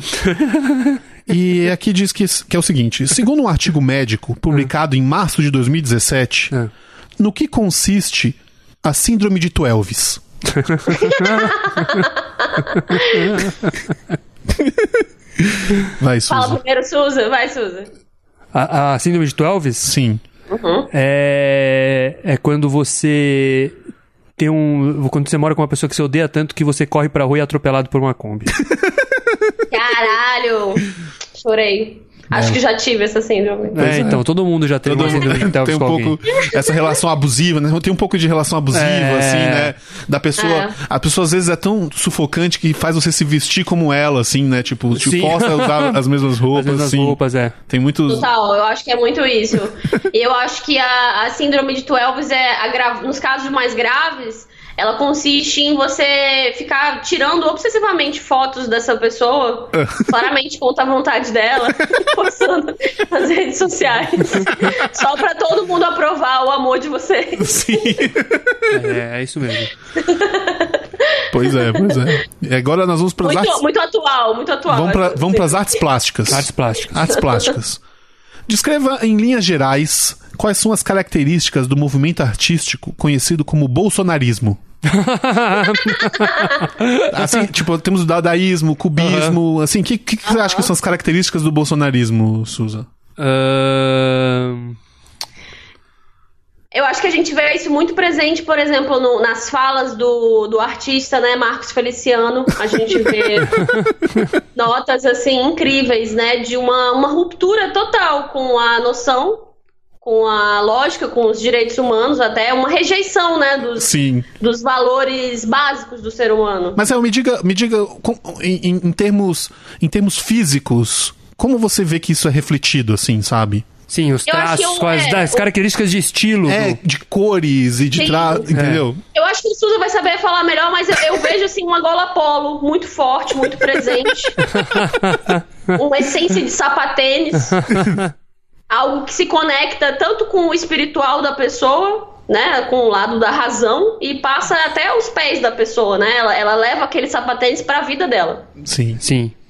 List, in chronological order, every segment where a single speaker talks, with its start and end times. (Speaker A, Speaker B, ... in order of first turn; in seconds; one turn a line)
Speaker A: 0.1-1.0
Speaker B: 1.3-6.5
Speaker B: 7.2-10.2
Speaker A: 10.5-12.1
Speaker C: 10.9-11.8
Speaker C: 12.4-13.3
Speaker A: 12.9-13.8
Speaker B: 14.5-16.6
Speaker C: 16.3-17.9
Speaker A: 18.5-19.9
Speaker B: 19.8-20.2
Speaker C: 20.5-20.9
Speaker A: 20.9-23.8
Speaker A: 24.4-28.6
Speaker B: 28.5-29.5
Speaker C: 29.7-33.9
Speaker B: 32.3-32.6
Speaker A: 33.7-36.2
Speaker B: 33.8-34.2
Speaker B: 34.8-47.2
Speaker C: 36.4-36.9
Speaker A: 38.7-39.7
Speaker C: 40.4-40.8
Speaker A: 44.9-47.5
Speaker B: 47.7-48.3
Speaker C: 48.1-68.0
Speaker B: 59.7-60.1
Speaker B: 67.4-68.7
Speaker A: 68.7-69.7
Speaker C: 70.0-72.1
Speaker B: 71.3-73.6
Speaker C: 73.2-75.8
Speaker B: 74.7-77.8
Speaker A: 76.3-76.9
Speaker C: 77.1-77.5
Speaker B: 78.5-84.6
Speaker A: 84.8-87.4
Speaker B: 87.1-92.9
Speaker A: 89.0-89.4
Speaker C: 90.3-90.7
Speaker A: 93.2-94.8
Speaker C: 96.7-103.7
Speaker A: 103.5-103.9
Speaker C: 104.5-109.4
Speaker C: 110.0-116.8
Speaker B: 113.8-114.2
Speaker B: 116.8-123.7
Speaker A: 123.9-126.8
Speaker C: 124.2-125.5
Speaker B: 126.5-129.0
Speaker C: 128.0-128.6
Speaker A: 128.5-128.8
Speaker C: 129.1-134.5
Speaker A: 134.4-135.8
Speaker C: 135.7-137.6
Speaker A: 137.5-138.1
Speaker C: 138.7-148.5
Speaker B: 148.6-149.0
Speaker A: 149.0-149.3